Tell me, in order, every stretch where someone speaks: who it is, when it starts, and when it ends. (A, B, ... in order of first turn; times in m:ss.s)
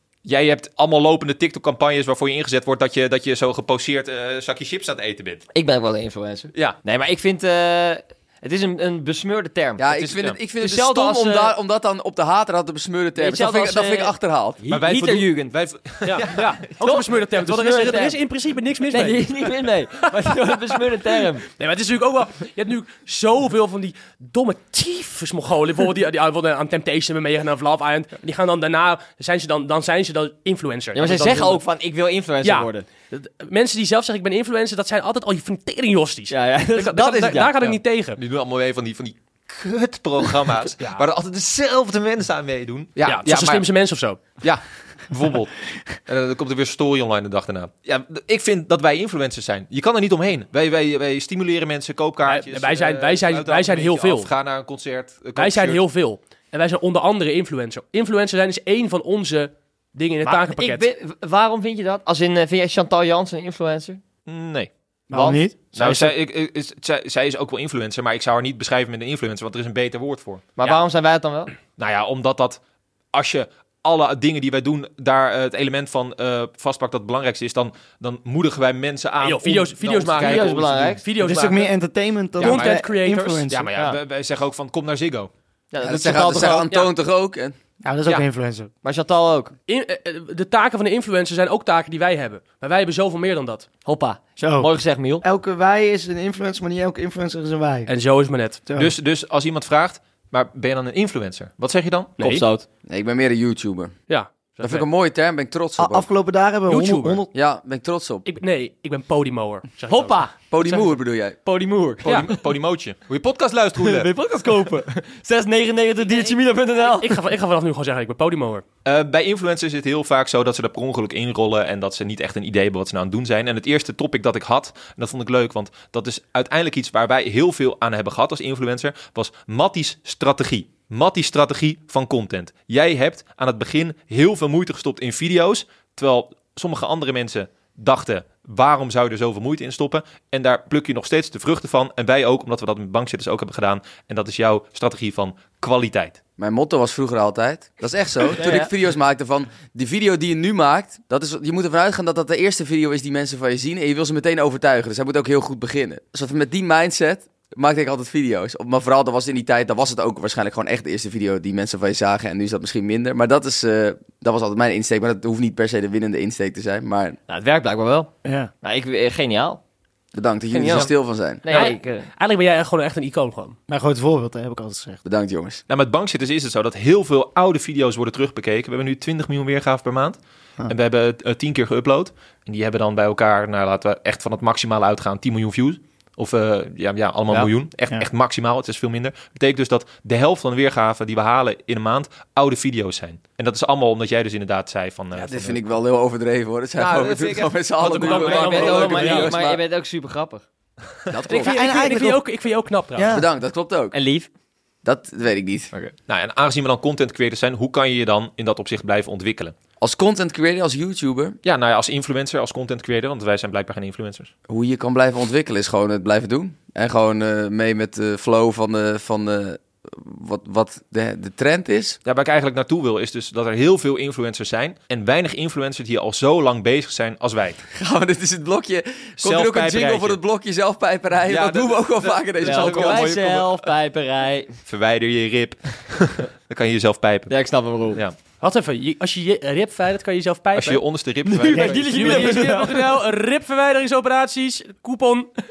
0:00.2-0:05.4 A
0:05.5-0:11.6 B
0:09.8-0:14.6 C
0:10.0-0:10.4 A
0:13.2-0:15.6 B
0:14.7-0:16.6 A
0:16.1-0:31.6 D
0:16.8-0:18.2 B
0:18.9-0:21.5 B
0:30.9-0:32.9 B
0:32.4-0:38.2 D
0:36.3-0:37.8 B
0:38.2-0:43.7 A
0:43.0-0:44.2 D
0:44.4-0:55.8 A
0:52.3-0:54.3 D
0:55.4-1:00.9 D
1:00.2-1:04.0 B
1:04.3-1:04.7 A
1:05.1-1:06.1 E
1:05.1-1:05.4 B
1:05.8-1:10.4 A
1:10.6-1:11.5 B
1:11.8-1:12.6 A
1:13.1-1:20.9 A
1:19.2-1:21.7 D
1:20.1-1:21.0 B
1:21.2-1:23.7 E
1:22.4-1:23.5 D
1:22.4-1:22.9 A
1:23.5-1:25.3 A
1:25.7-1:26.7 B
1:25.8-1:27.6 C
1:27.8-1:28.7 E
1:28.8-1:29.5 B
1:29.7-1:33.7 D
1:33.8-1:35.2 B
1:34.4-1:37.9 E
1:37.9-1:38.6 D
1:38.7-1:38.9 E
1:38.8-1:42.2 A
1:42.2-1:42.4 D
1:42.2-1:42.7 B
1:42.9-1:44.0 C
1:44.1-1:44.9 D
1:44.6-1:46.0 C
1:45.8-1:47.3 E
1:46.7-1:47.2 D
1:47.3-1:48.2 C
1:48.2-1:50.9 D
1:49.9-1:50.4 B
1:50.5-1:51.4 C
1:51.4-1:52.3 B
1:52.0-1:54.1 A
1:52.0-1:52.3 D
1:53.8-1:57.2 B
1:56.0-1:58.6 D
1:58.8-2:26.2 A
2:26.4-2:47.2 C
2:28.4-2:28.7 B
2:47.3-2:48.1 B
2:48.2-2:48.5 E
2:48.6-2:49.6 B
2:50.1-2:51.5 C
2:50.5-2:50.9 D
2:51.4-2:52.1 B
2:51.5-2:53.6 D
2:53.7-2:55.0 E
2:55.0-2:55.6 C
2:55.7-3:15.6 A
3:07.3-3:08.0 E
3:15.2-3:19.6 C
3:16.8-3:19.3 A
3:17.8-3:19.3 D
3:18.0-3:20.4 B
3:21.1-3:21.9 C
3:21.3-3:23.2 D
3:21.4-3:22.2 E
3:23.0-3:23.3 E
3:23.1-3:24.0 C
3:23.9-3:24.3 B
3:24.8-3:25.7 C
3:26.1-3:29.5 A
3:29.8-3:31.4 C
3:31.4-3:34.3 A
3:34.5-3:42.0 C
3:42.0-3:47.6 A
3:47.8-3:53.2 C
3:49.2-3:50.2 A
3:51.3-3:53.7 A
3:52.4-3:54.6 B
3:54.7-3:57.4 A
3:57.3-3:58.0 B
3:58.4-4:00.8 D
4:00.6-4:02.3 A
4:01.3-4:02.8 B
4:01.5-4:02.6 E
4:01.9-4:05.3 D